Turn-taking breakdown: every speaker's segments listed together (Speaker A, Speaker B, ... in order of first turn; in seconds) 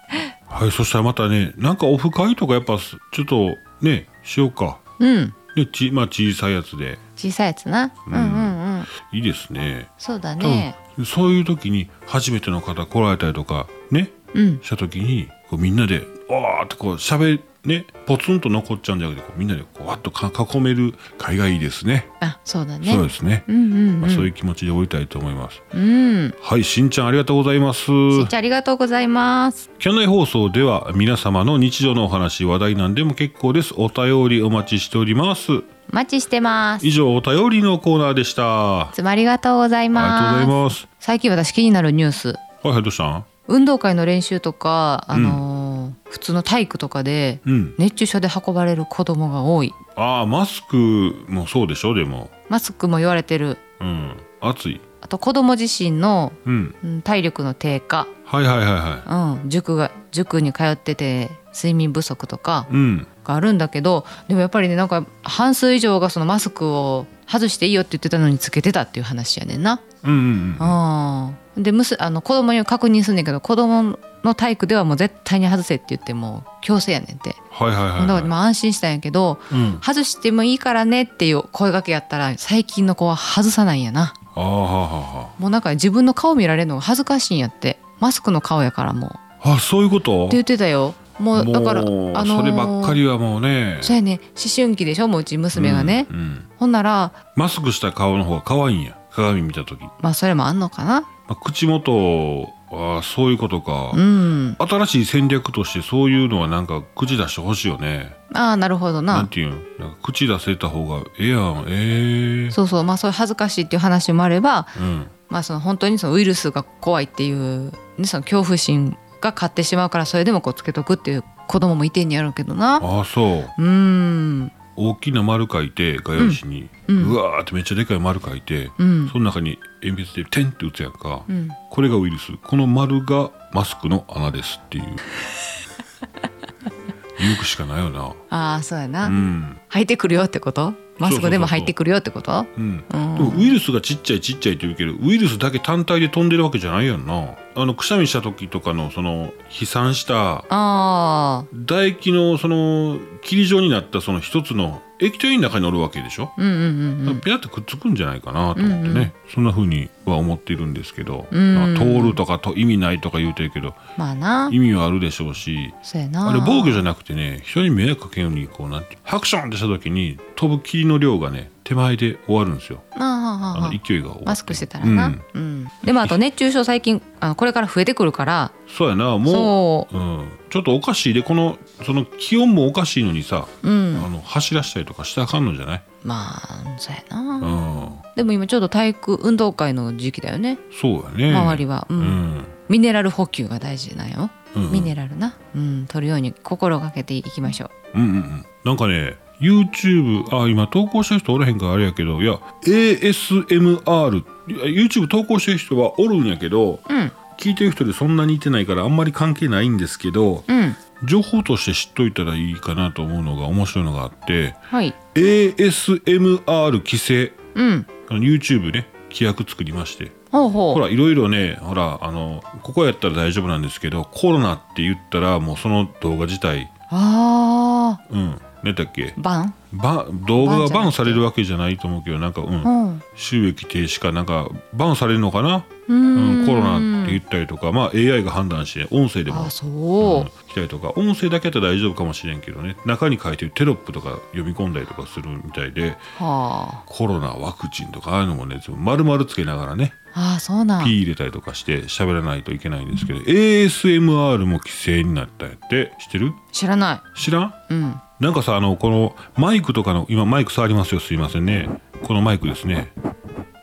Speaker A: 0.5-4.8, 5.5-7.0, 8.1-22.1, 22.8-23.5, 24.0-25.6, 26.4-28.3, 29.8-35.7, 36.8-38.9, 39.9-40.9, 42.6-43.3, 45.1-45.4, 47.4-47.8, 50.0-52.3, 53.8-54.8, 56.5-56.7, 58.3-59.1, 62.7-63.1, 70.0-70.8, 77.5-78.3, 79.5-79.8, 84.3-85.3, 89.4-90.4, 91.3-94.0, 95.5-96.5, 97.3-99.9, 101.3-104.0, 104.6-108.2, 109.1-112.5, 114.8-115.1, 122.8-123.5, 124.8-135.0, 137.2-138.2, 139.0-139.6, 141.0-141.7, 142.6-150.5, 151.5-156.3, 157.0-163.8, 164.5-172.8, 173.5-175.2, 175.8-176.1, 178.7-185.8, 187.4-188.0, 190.7-192.5, 194.5-194.9, 197.9-210.4, 211.0-214.6, 215.1-217.4, 218.0-220.2, 220.7-226.7, 228.1-229.2, 229.7-246.0, 246.9-249.9, 250.8-256.4, 257.1-257.6, 258.2-262.9
Speaker B: 5.0-5.3, 7.2-8.9, 10.0-10.8, 14.3-14.6, 22.2-24.3, 25.7-26.4, 28.1-29.7, 35.9-36.9, 38.9-42.4, 43.5-49.8, 52.5-53.6, 55.0-58.1, 59.0-62.7, 63.2-69.8, 70.6-77.4, 78.0-84.1, 85.4-89.2, 90.3-93.0, 93.8-97.2, 100.0-101.1, 103.9-104.6, 108.3-109.3, 112.5-122.8, 123.5-124.5, 126.2-127.2, 128.8-129.1, 131.3-131.6, 138.3-139.2, 139.7-143.5, 150.5-151.5, 156.4-157.2, 158.5-159.1, 161.3-162.2, 163.9-164.6, 165.8-166.8, 172.9-178.6, 179.2-179.9, 183.6-184.1, 186.0-190.6, 191.3-197.7, 206.9-207.2, 210.5-210.8, 214.7-214.9, 217.5-217.9, 220.3-220.8, 226.9-228.0, 229.2-229.6, 230.4-231.2, 232.6-233.0, 235.9-237.2, 239.3-240.3, 246.2-246.8, 250.1-250.9, 256.5-257.1, 257.7-258.0